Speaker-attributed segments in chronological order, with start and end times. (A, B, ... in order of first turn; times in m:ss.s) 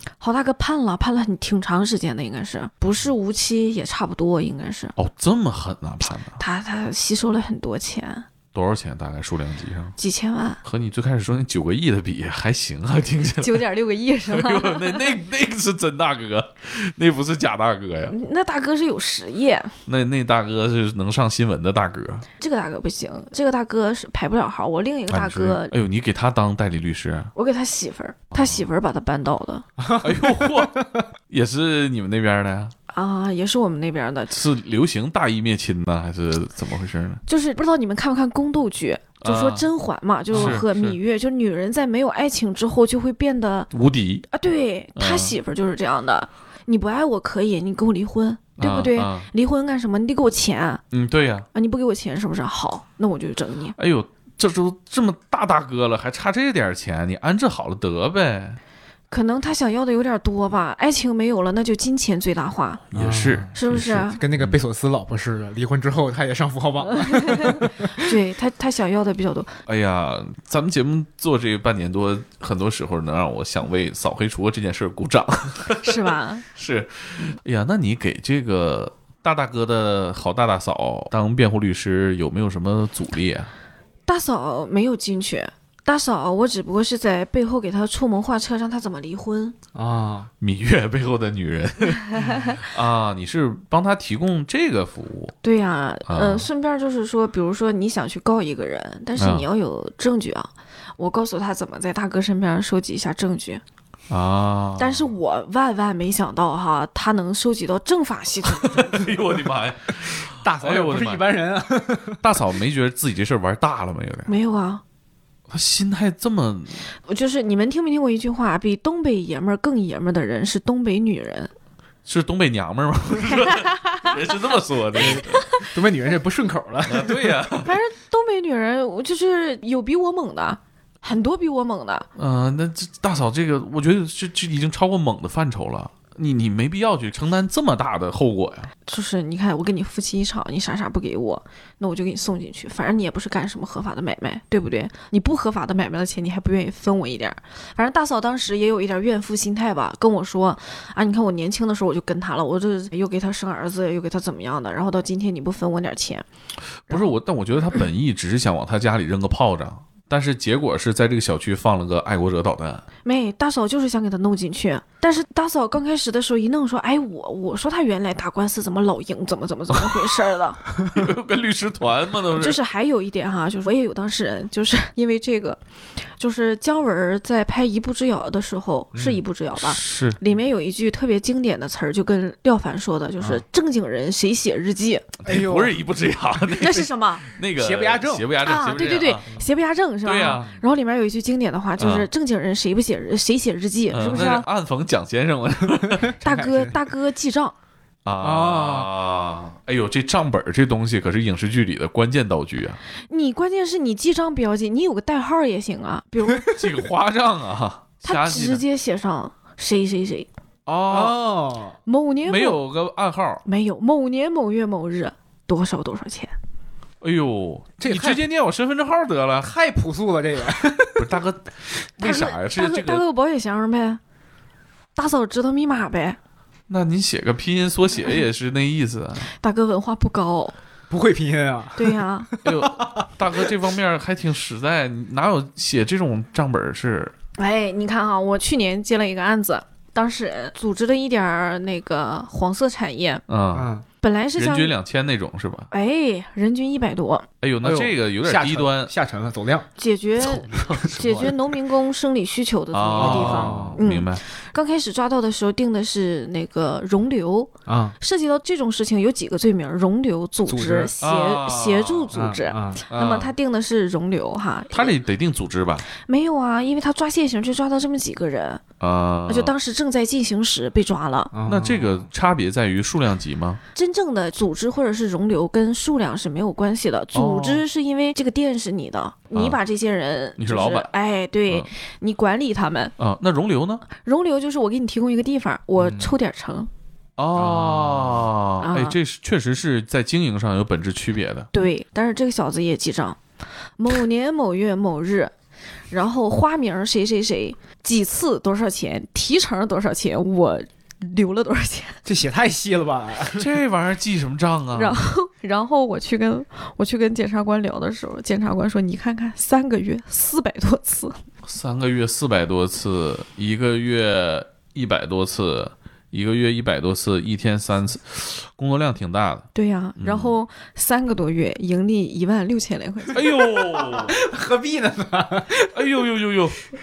0:00.2-0:04.9 A
0:05.0-0:06.4 B
0:06.4-0:08.2 A
0:08.5-0:10.0 B
0:10.0-0:10.6 A
0:10.6-0:13.6 B
0:13.4-0:15.2 A
0:14.3-0:18.1 B
0:18.1-0:19.7 A
0:19.9-0:22.2 B
0:22.4-0:25.7 A
0:25.1-0:27.3 B
0:27.3-0:29.6 A
0:28.3-0:28.6 B
0:29.8-0:31.0 C
0:30.0-0:32.7 B
0:32.9-0:34.3 A
0:34.3-0:37.2 B
0:37.3-0:43.7 A
0:39.2-0:39.7 B
0:40.3-0:40.6 C
0:40.3-0:41.0 B
0:43.7-0:44.3 B
0:44.3-0:50.8 A
0:45.0-0:45.4 B
0:48.6-0:49.3 B
0:50.9-0:51.5 B
0:51.5-0:53.7 A
0:53.8-0:58.6 B
0:59.1-1:02.8 A
1:02.9-1:04.6 B
1:02.9-1:07.8 C
1:03.5-1:04.2 A
1:07.0-1:09.5 A
1:09.7-1:23.5 B
1:15.8-1:16.4 A
1:24.0-1:29.5 A
1:29.7-1:30.3 C
1:30.4-1:35.3 B
1:35.4-1:43.6 A
1:36.1-1:36.5 B
1:39.2-1:39.4 B
1:44.1-1:45.1 B
1:44.8-1:49.1 A
1:48.5-1:51.2 B
1:50.3-1:52.3 C
1:52.2-1:54.3 B
1:54.3-1:54.8 A
1:55.5-1:56.9 B
1:57.0-2:01.5 A
2:02.0-2:05.5 B
2:03.3-2:04.1 A
2:04.9-2:07.4 C
2:05.3-2:05.6 A
2:06.8-2:07.8 B
2:07.6-2:12.0 A
2:12.2-2:18.7 B
2:18.8-2:36.2 A
2:36.9-2:42.8 B
2:43.0-2:50.6 A
2:50.8-2:52.6 B
2:52.4-3:05.1 A
2:58.9-2:59.2 C
2:59.6-3:00.2 B
3:05.2-3:09.3 B
3:05.2-3:05.8 C
3:06.6-3:07.2 A
3:07.6-3:08.3 C
3:08.4-3:14.4 A
3:10.0-3:10.5 B
3:11.8-3:12.1 B
3:13.9-3:16.2 B
3:16.1-3:16.8 C
3:16.2-3:17.5 A
3:18.0-3:22.8 B
3:18.2-3:18.9 C
3:23.1-3:26.6 A
3:26.5-3:28.6 B
3:28.0-3:30.3 A
3:30.7-3:31.2 B
3:30.9-3:31.8 C
3:31.8-3:32.6 A
3:32.2-3:33.4 B
3:33.4-3:36.3 A
3:37.0-3:39.5 B
3:37.8-3:38.2 C
3:39.4-3:41.2 C
3:40.9-3:43.0 B
3:42.0-3:44.0 A
3:45.0-3:46.2 A
3:46.7-3:49.3 B
3:49.3-3:50.5 A
3:50.9-3:53.5 C
3:51.8-3:52.3 A
3:52.4-3:57.1 B
3:57.4-4:03.2 A
4:03.3-4:03.7 B
4:03.5-4:03.8 C
4:04.0-4:04.7 A
4:04.4-4:05.7 B
4:05.7-4:07.3 A
4:07.4-4:08.9 B
4:07.6-4:09.7 C
4:09.8-4:25.0 A
4:10.2-4:11.4 B
4:10.8-4:11.3 C
4:12.7-4:14.2 B
4:13.0-4:13.8 C
4:17.6-4:18.0 C
4:20.5-4:20.9 C
4:21.0-4:22.2 B
4:22.1-4:22.8 C
4:22.9-4:23.3 B
4:24.7-4:25.8 B
4:25.9-4:28.6 A
4:28.8-4:29.5 B
4:29.3-4:31.3 A
4:31.3-4:32.1 C
4:31.4-4:33.6 B
4:33.7-4:42.9 A
4:37.1-4:37.6 B
4:39.3-4:39.6 B
4:40.4-4:40.9 B
4:43.0-4:43.8 B
4:43.9-4:46.7 A
4:45.8-4:46.1 C
4:47.2-4:51.5 B
4:47.3-4:48.3 C
4:48.6-4:49.0 A
4:51.5-4:53.2 A
4:53.8-4:55.3 A
4:55.9-5:02.0 A
5:02.0-5:03.5 C
5:03.3-5:05.0 B
5:04.7-5:11.2 A
5:11.4-5:19.5 B
5:19.5-5:23.2 A
5:20.0-5:20.3 B
5:23.1-5:24.2 B
5:23.3-5:25.7 C
5:25.7-5:26.6 B